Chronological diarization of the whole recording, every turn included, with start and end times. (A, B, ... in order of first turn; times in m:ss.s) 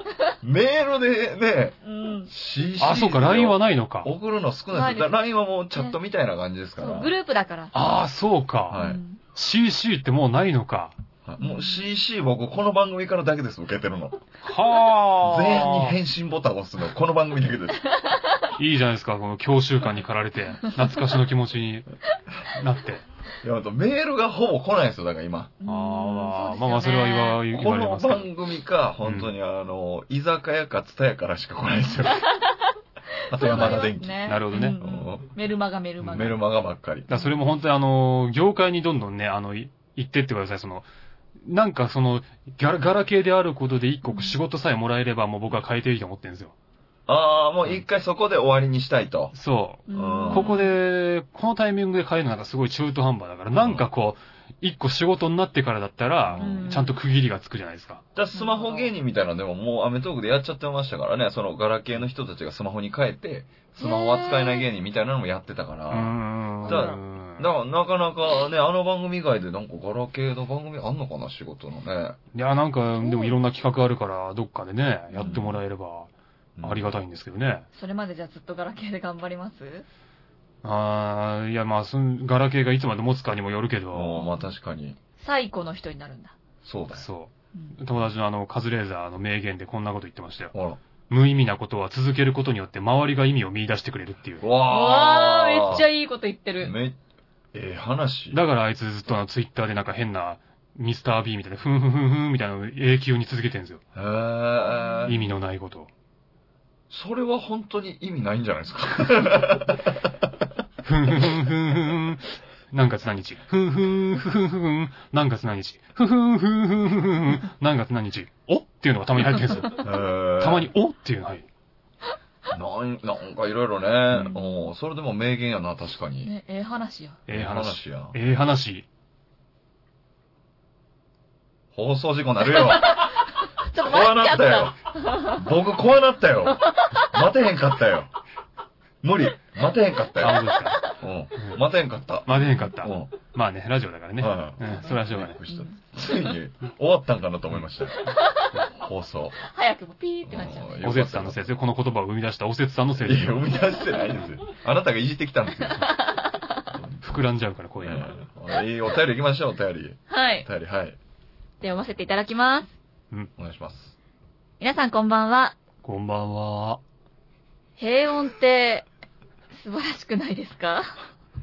0:00.4-0:01.8 A
0:01.8-0:02.3 B
0:02.3-0:07.1 A
0:02.8-0:04.1 C
0:04.7-0:05.1 B
0:06.8-0:07.7 B
0:07.7-0:08.8 C
0:08.7-0:09.0 A
0:08.8-0:09.2 B
0:09.3-0:11.0 C
0:11.2-0:14.2 A
0:11.4-0:11.9 B
0:14.4-0:16.0 C
0:15.2-0:17.8 A
0:18.6-0:21.9 C
0:20.6-0:21.0 B
0:22.5-0:23.0 C
0:23.4-0:25.5 A
0:25.6-0:27.4 B
0:25.6-0:28.3 C
0:27.5-0:32.3 A
0:29.0-0:29.3 C
0:33.3-0:35.3 A
0:33.3-0:36.4 B
0:34.2-0:34.8 C
0:36.0-0:36.3 C
0:36.1-0:37.1 A
0:37.1-0:40.9 C
0:37.1-0:37.4 B
0:41.4-0:46.5 C
0:44.0-0:44.4 B
0:47.1-0:49.3 A
0:49.3-0:58.0 C
0:49.9-0:50.8 B
0:49.9-0:50.5 A
0:53.6-0:53.8 A
0:56.3-0:56.7 A
0:56.4-0:57.0 B
0:58.1-1:12.2 A
0:58.3-0:58.9 B
1:03.8-1:04.7 B
1:05.9-1:07.5 C
1:06.6-1:07.0 B
1:12.3-1:16.1 C
1:13.0-1:13.4 B
1:15.1-1:15.4 B
1:15.2-1:15.6 A
1:16.6-1:17.0 A
1:16.6-1:17.6 C
1:17.7-1:19.8 B
1:20.6-1:24.2 C
1:23.9-1:25.0 A
1:24.1-1:24.5 B
1:25.2-1:26.3 B
1:26.6-1:27.0 A
1:26.9-1:30.5 C
1:30.5-1:30.8 A
1:31.1-1:34.4 C
1:34.4-1:35.8 A
1:34.6-1:36.7 B
1:36.6-1:37.0 A
1:37.5-1:38.4 A
1:38.3-1:43.8 C
1:43.9-1:45.2 A
1:44.7-1:45.2 B
1:45.0-1:45.9 C
1:46.9-1:50.3 A
1:50.8-2:01.4 C
1:59.8-2:00.7 A
2:02.5-2:06.3 A
2:04.1-2:04.7 B
2:06.2-2:07.2 B
2:07.3-2:08.8 C
2:07.3-2:08.2 A
2:11.7-2:18.1 A
2:12.5-2:15.4 B
2:16.7-2:17.2 B
2:19.0-2:23.1 A
2:20.2-2:20.8 C
2:22.2-2:25.4 C
2:24.2-2:28.1 A
2:25.5-2:25.8 B
2:28.0-2:28.6 B
2:28.7-2:29.4 A
2:29.4-2:30.8 B
2:30.2-2:31.5 A
2:30.8-2:33.6 C
2:33.0-2:36.0 A
2:35.7-2:36.4 B
2:36.7-2:37.0 A
2:37.0-2:38.1 C
2:37.8-2:41.0 A
2:40.1-2:40.5 B
2:41.6-2:42.7 B
2:43.4-2:43.9 A
2:44.6-2:45.6 B
2:45.8-2:46.8 C
2:47.8-2:48.8 B
2:49.5-2:51.0 B